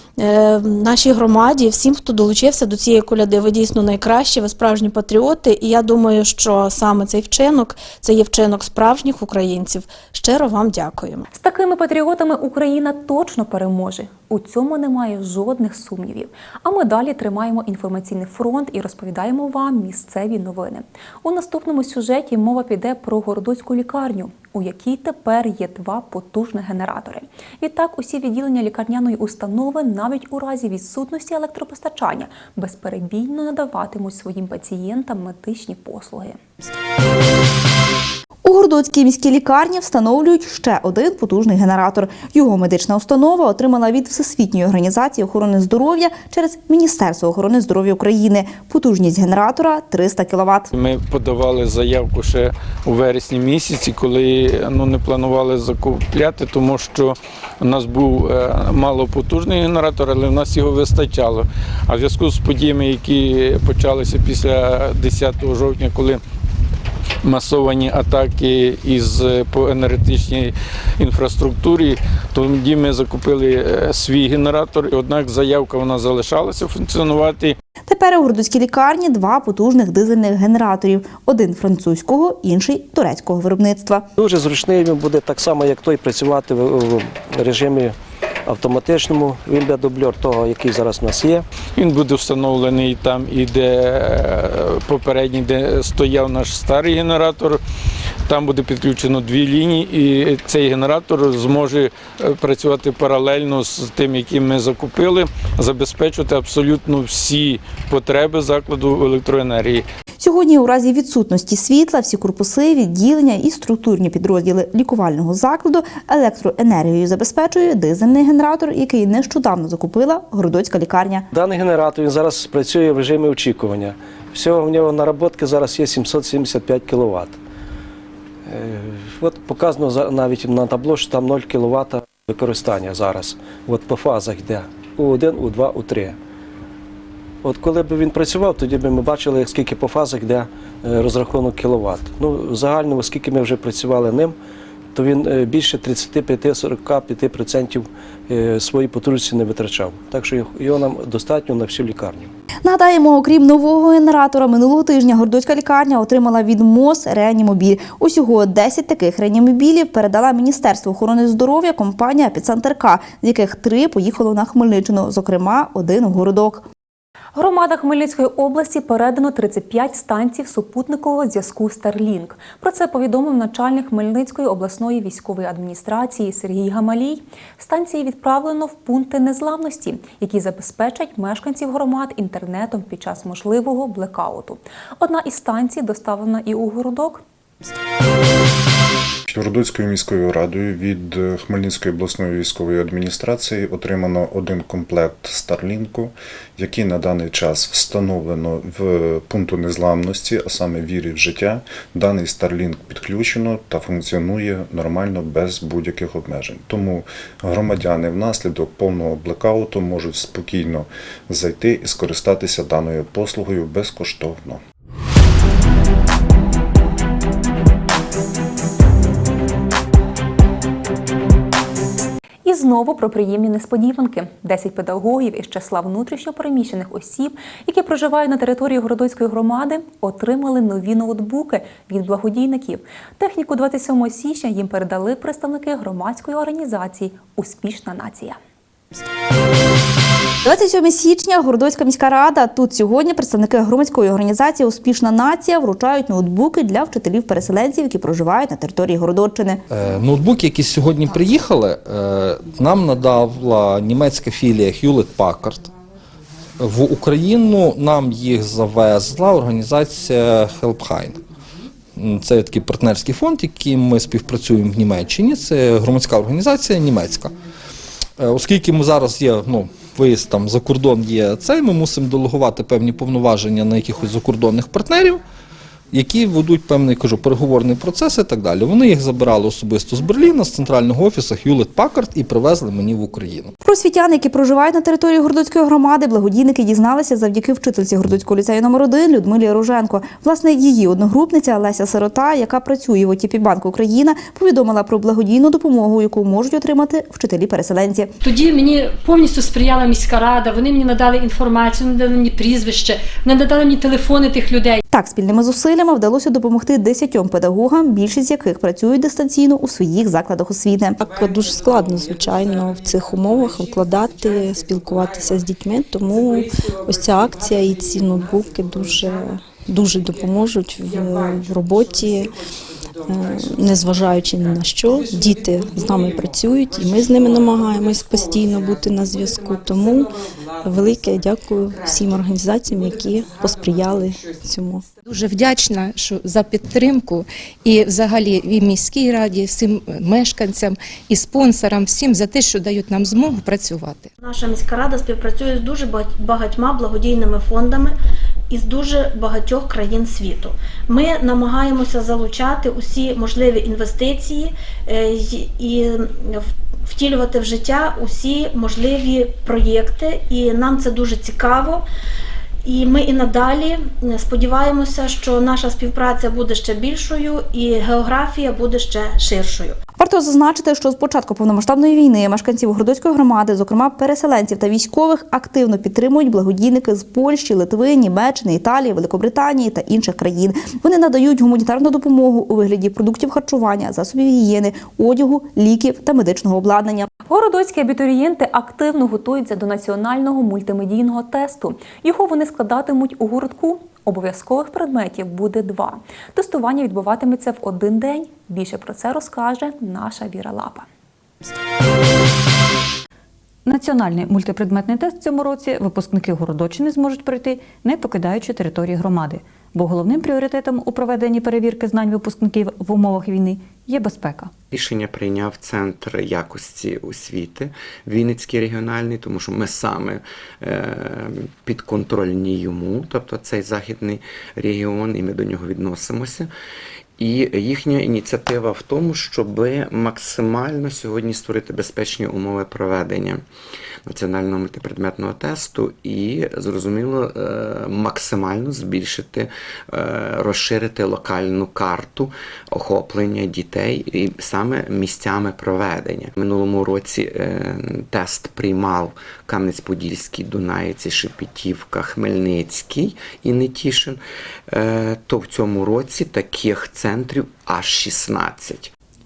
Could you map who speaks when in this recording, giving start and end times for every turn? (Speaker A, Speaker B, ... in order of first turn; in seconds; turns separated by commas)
Speaker A: 0.2-11.2, Speaker B: 11.3-36.4, Speaker C: 38.4-50.7, Speaker D: 50.7-66.2, Speaker D: 67.2-77.6, Speaker C: 77.9-84.1, Speaker E: 84.2-91.5, Speaker D: 91.8-97.6, Speaker D: 98.3-109.8, Speaker C: 110.2-121.3, Speaker E: 121.3-127.4, Speaker E: 128.5-136.2, Speaker E: 137.4-144.3, Speaker E: 144.9-152.3, Speaker C: 152.6-166.7, Speaker B: 167.3-187.2, Speaker F: 189.3-214.6, Speaker B: 222.4-238.4, Speaker C: 240.4-249.6, Speaker G: 249.7-255.7, Speaker G: 256.6-261.2, Speaker G: 261.9-267.3, Speaker G: 268.2-275.2, Speaker G: 275.9-283.6, Speaker C: 283.6-298.1, Speaker H: 298.2-304.8, Speaker C: 304.9-311.0, Speaker I: 311.0-322.4, Speaker I: 323.1-334.9, Speaker J: 335.0-344.1, Speaker A: 344.2-347.9, Speaker A: 348.5-361.8, Speaker A: 362.6-369.8, Speaker C: 370.0-387.1, Speaker B: 387.3-400.9, Speaker K: 403.6-414.5, Speaker L: 414.7-426.5, Speaker L: 427.2-433.4, Speaker L: 434.1-454.2, Speaker L: 454.7-458.9